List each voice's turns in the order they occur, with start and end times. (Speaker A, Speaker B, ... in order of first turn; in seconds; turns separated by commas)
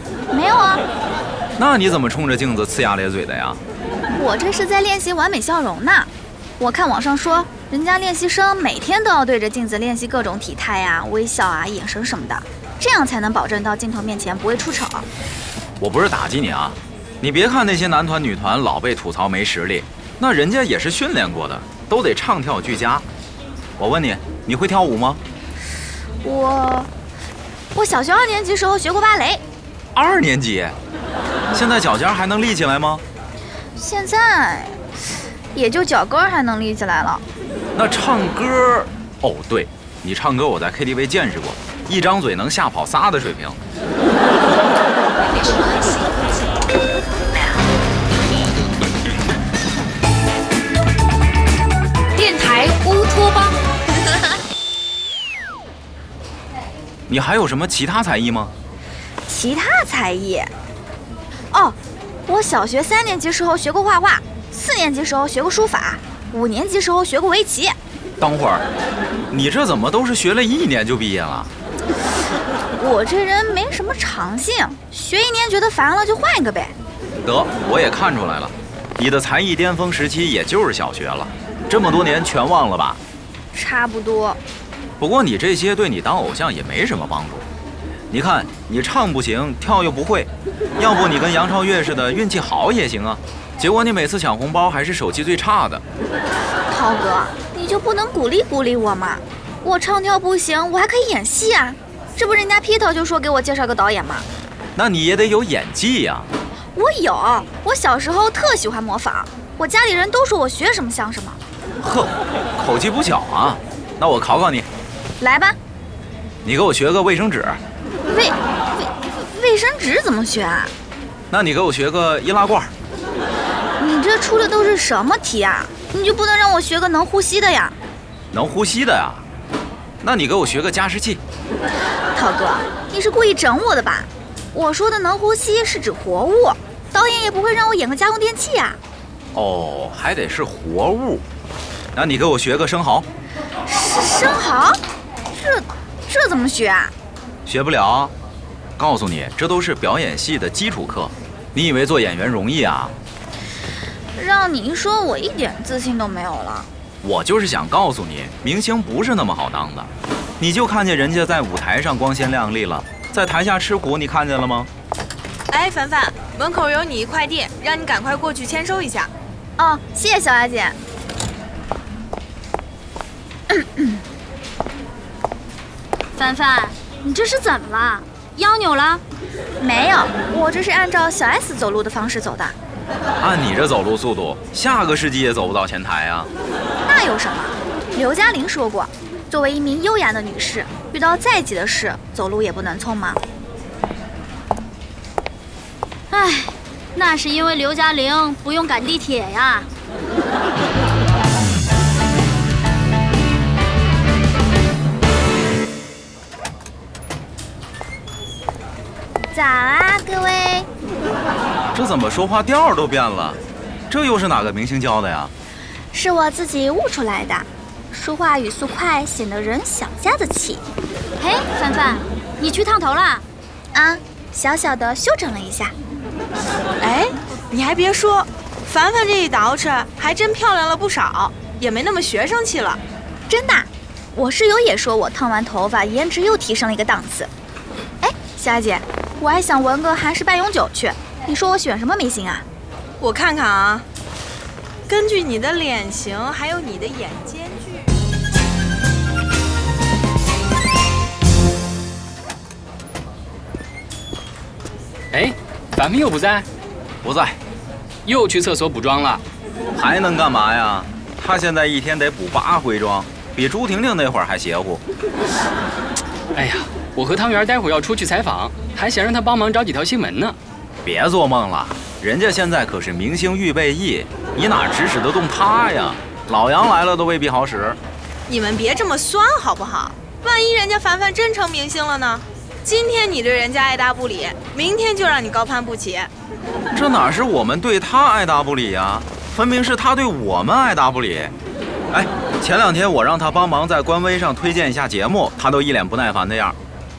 Speaker A: 0.3-0.8, Speaker B: 1.6-3.6, Speaker A: 4.2-15.1, Speaker B: 15.8-23.0, Speaker B: 23.8-25.2, Speaker A: 26.2-26.9, Speaker A: 27.7-29.4, Speaker B: 29.9-30.8, Speaker B: 31.5-33.0, Speaker A: 33.8-34.8, Speaker A: 35.5-37.2, Speaker B: 37.7-43.6, Speaker A: 45.4-46.0, Speaker A: 52.1-53.6, Speaker B: 57.1-58.5, Speaker A: 59.2-60.5, Speaker A: 61.5-67.8, Speaker B: 68.2-68.7, Speaker B: 69.3-71.5, Speaker A: 72.8-76.7, Speaker B: 77.2-83.0, Speaker A: 83.5-84.4, Speaker B: 85.0-87.5, Speaker B: 88.1-95.8, Speaker A: 96.7-104.2, Speaker B: 104.8-106.3, Speaker A: 106.8-111.4, Speaker B: 111.8-114.7, Speaker A: 115.2-115.5, Speaker B: 116.4-117.6, Speaker A: 118.1-120.7, Speaker B: 121.3-122.7, Speaker A: 123.8-127.8, Speaker B: 128.3-129.2, Speaker B: 130.0-131.2, Speaker A: 132.1-138.8, Speaker B: 139.3-141.2, Speaker B: 141.9-143.1, Speaker A: 143.7-144.8, Speaker A: 145.3-146.9, Speaker B: 147.4-148.1, Speaker B: 148.8-152.9, Speaker A: 154.1-156.7, Speaker B: 157.0-164.7, Speaker C: 165.5-169.1, Speaker A: 169.6-170.8, Speaker A: 173.5-173.9, Speaker D: 176.2-179.0, Speaker A: 179.6-182.6, Speaker B: 183.2-186.3, Speaker A: 186.8-193.2, Speaker D: 196.1-199.7, Speaker A: 209.3-210.7, Speaker B: 211.7-215.3, Speaker A: 215.9-220.6, Speaker D: 221.2-223.2, Speaker A: 223.7-225.7, Speaker C: 226.8-232.8, Speaker A: 233.3-237.3, Speaker A: 238.0-242.4, Speaker C: 243.0-243.8, Speaker C: 244.9-247.9, Speaker E: 255.1-256.4, Speaker B: 257.0-257.4, Speaker E: 258.1-259.2, Speaker B: 259.7-264.8, Speaker E: 266.3-270.4, Speaker B: 270.8-277.8, Speaker C: 278.3-286.1, Speaker B: 286.7-291.3, Speaker B: 291.9-296.6